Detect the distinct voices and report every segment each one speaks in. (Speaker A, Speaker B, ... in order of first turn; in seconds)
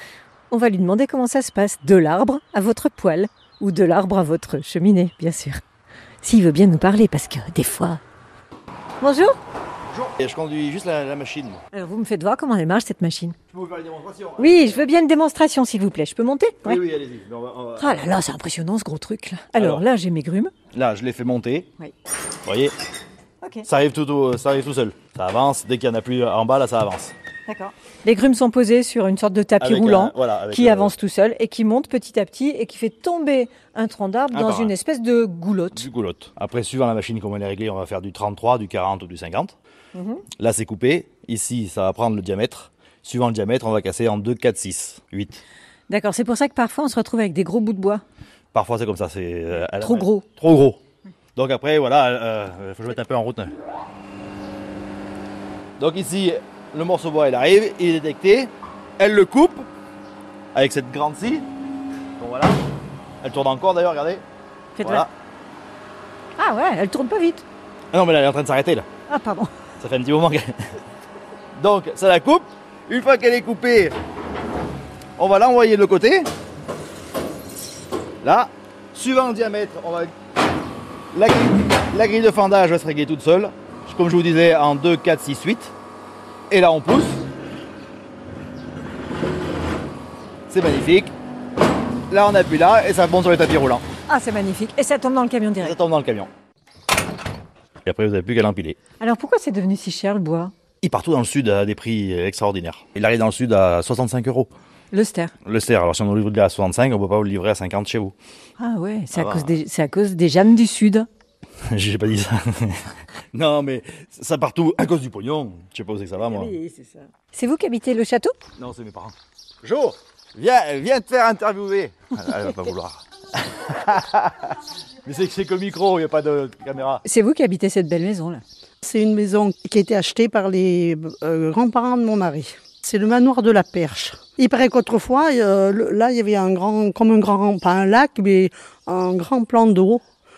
Speaker A: 0.5-5.6, 6.2-8.0, 9.0-9.4, 11.7-13.4, 14.4-16.8, 17.8-20.5, 23.4-23.7, 27.5-35.9, 40.0-40.2, 45.9-48.0, 49.8-50.3, 64.8-65.1, 66.4-67.5, 69.1-69.5, 94.1-95.8, 99.0-100.5, 104.9-105.3, 108.6-111.1, 116.2-118.4, 127.0-128.4
Speaker B: 9.9-11.6, 13.5-14.8, 16.6-18.1, 19.6-19.8, 20.7-21.7, 22.5-22.7, 23.7-27.1, 29.6-30.9, 34.3-34.7, 35.7-39.5, 40.4-45.4, 48.5-50.8, 51.4-53.5, 55.8-59.7, 60.5-61.5, 62.2-62.6, 63.2-64.2, 64.8-65.1, 67.9-68.9, 69.8-70.6, 71.5-73.9, 75.2-76.3, 78.2-80.1, 81.1-85.7, 86.5-87.2, 90.5-91.1, 92.1-93.8, 95.6-96.3, 97.8-98.8, 100.8-104.5, 105.5-108.1, 109.1-109.5, 111.7-116.6, 118.6-127.0
Speaker C: 128.8-140.0